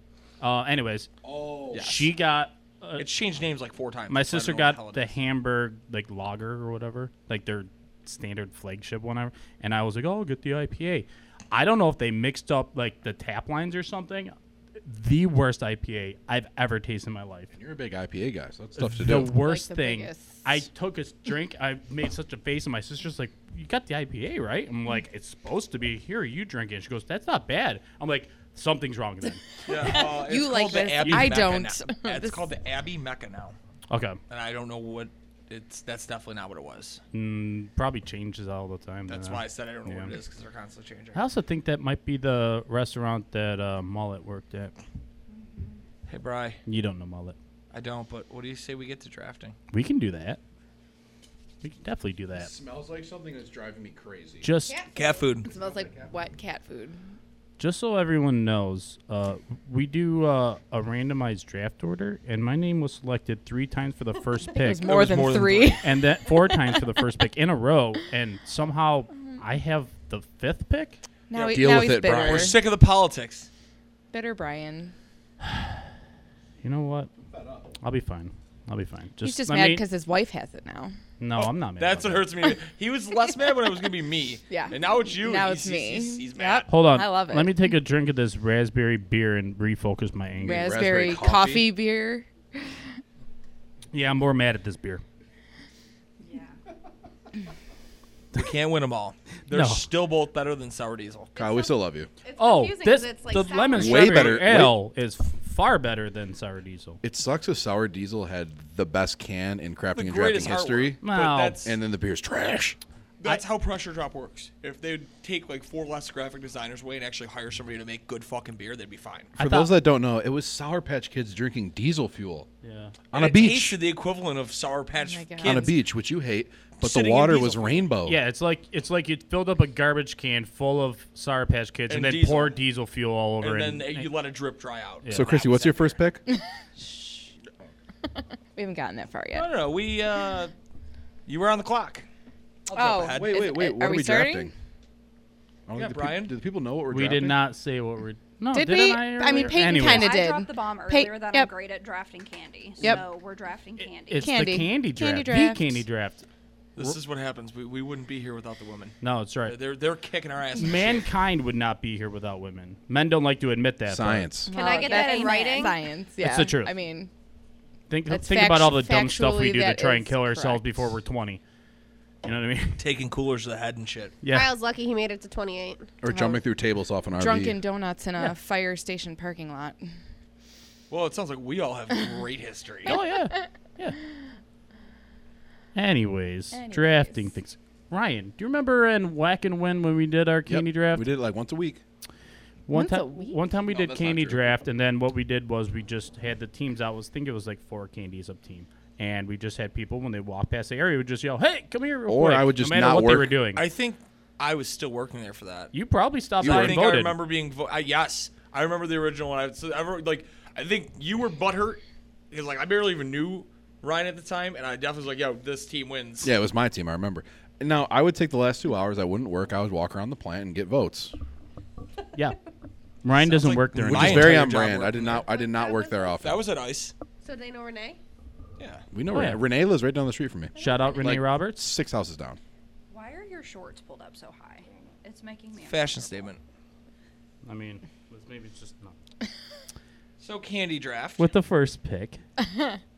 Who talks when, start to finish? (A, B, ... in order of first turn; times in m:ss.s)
0:00.4-0:01.1 A
0:01.2-0:01.9 B
0:01.7-0:02.1 C
0:01.7-0:03.0 A
0:03.0-0:05.1 C
0:04.1-0:17.5 A
0:17.5-0:19.3 B
0:18.8-0:29.4 A
0:19.2-0:20.6 D
0:29.6-0:33.6 C
0:29.7-0:32.4 D
0:31.0-0:31.4 A
0:33.9-0:34.2 A
0:34.3-0:37.0 C
0:37.1-0:40.2 A
0:39.1-0:41.2 C
0:41.1-0:44.7 A
0:46.1-0:46.6 C
0:46.6-0:47.4 A
0:47.7-0:49.6 C
0:49.7-0:50.4 A
0:51.6-0:52.5 A
0:52.3-0:54.5 B
0:54.4-0:54.8 A
0:54.6-0:55.4 E
0:54.9-0:55.5 C
0:55.4-0:57.0 D
0:55.5-0:56.1 B
0:57.6-1:04.9 A
1:04.5-1:06.4 D
1:04.8-1:05.8 C
1:05.8-1:11.0 A
1:11.3-1:12.6 D
1:11.3-1:13.5 C
1:11.5-1:12.6 B
1:14.1-1:14.9 D
1:15.5-1:15.7 A
1:16.6-1:17.1 A
1:17.3-1:17.7 B
1:17.8-1:19.8 A
1:19.2-1:20.9 D
1:21.2-1:22.3 A
1:21.8-1:26.7 C
1:24.5-1:27.6 D
1:26.7-1:30.7 A
1:30.4-1:32.7 D
1:30.4-1:31.8 B
1:33.9-1:35.0 A
1:36.2-1:36.6 F
1:38.3-1:41.3 C
1:39.5-1:39.8 A
1:41.3-1:44.4 E
1:41.4-1:42.1 B
1:42.4-1:47.0 A
1:43.7-1:44.8 B
1:47.0-1:51.0 B
1:49.9-1:51.8 C
1:51.0-1:51.6 A
1:51.6-1:52.8 B
1:53.2-1:59.3 C
1:59.4-1:59.8 A
1:59.4-2:02.5 B
2:02.6-2:02.9 A
2:03.1-2:03.8 B
2:03.1-2:05.7 C
2:05.0-2:05.8 D
2:05.4-2:08.2 B
2:06.8-2:07.9 C
2:08.0-2:14.1 A
2:11.9-2:12.6 C
2:13.4-2:16.0 C
2:15.0-2:15.3 A
2:15.1-2:16.2 B
2:16.8-2:17.2 D
2:18.5-2:19.5 D
2:19.3-2:20.5 C
2:21.2-2:22.0 C
2:22.7-2:23.5 C
2:22.7-2:24.5 D
2:23.1-2:24.5 B
2:25.7-2:27.4 B
2:25.7-2:26.3 C
2:26.9-2:30.2 A
2:28.5-2:31.5 D
2:29.6-2:34.5 F
2:32.8-2:33.0 D
2:33.8-2:36.2 A
2:34.2-2:35.8 D
2:36.8-2:41.1 C
2:39.0-2:39.6 A
2:40.6-2:44.3 A
2:43.9-2:44.5 B
2:44.5-2:47.1 D
2:44.5-2:45.8 E
2:44.5-2:45.8 F
2:46.2-2:46.7 A
2:47.9-2:51.4 A
2:48.1-2:50.8 D
2:52.2-2:52.8 A
2:52.8-2:54.2 C
2:54.2-2:54.6 A
2:54.2-2:55.9 E
2:56.0-2:57.6 B
2:56.1-2:56.4 D
2:57.2-2:59.8 D
3:00.9-3:03.0 C
3:02.8-3:04.0 A
3:05.7-3:11.1 A
3:06.5-3:07.3 D
3:10.5-3:11.8 B
3:12.7-3:23.6 A
3:12.7-3:13.4 D
3:13.7-3:14.5 B
3:22.1-3:23.4 B
3:23.5-3:25.7 C
3:25.7-3:27.2 A
3:26.4-3:26.9 B
3:26.4-3:36.3 C
3:36.2-3:41.1 B
3:43.0-3:44.5 A
3:43.1-3:45.2 C
3:43.7-3:46.4 B
3:45.1-3:46.3 E
3:46.2-3:46.9 C
3:47.2-3:48.0 E
3:48.6-3:48.8 C
3:48.9-3:52.4 B
3:49.1-3:49.4 A
3:50.6-3:51.1 F
3:50.6-3:51.7 A
3:52.9-3:56.2 F
3:55.6-3:56.4 C
3:57.4-3:58.9 A
4:00.2-4:01.3 C
4:01.2-4:02.2 A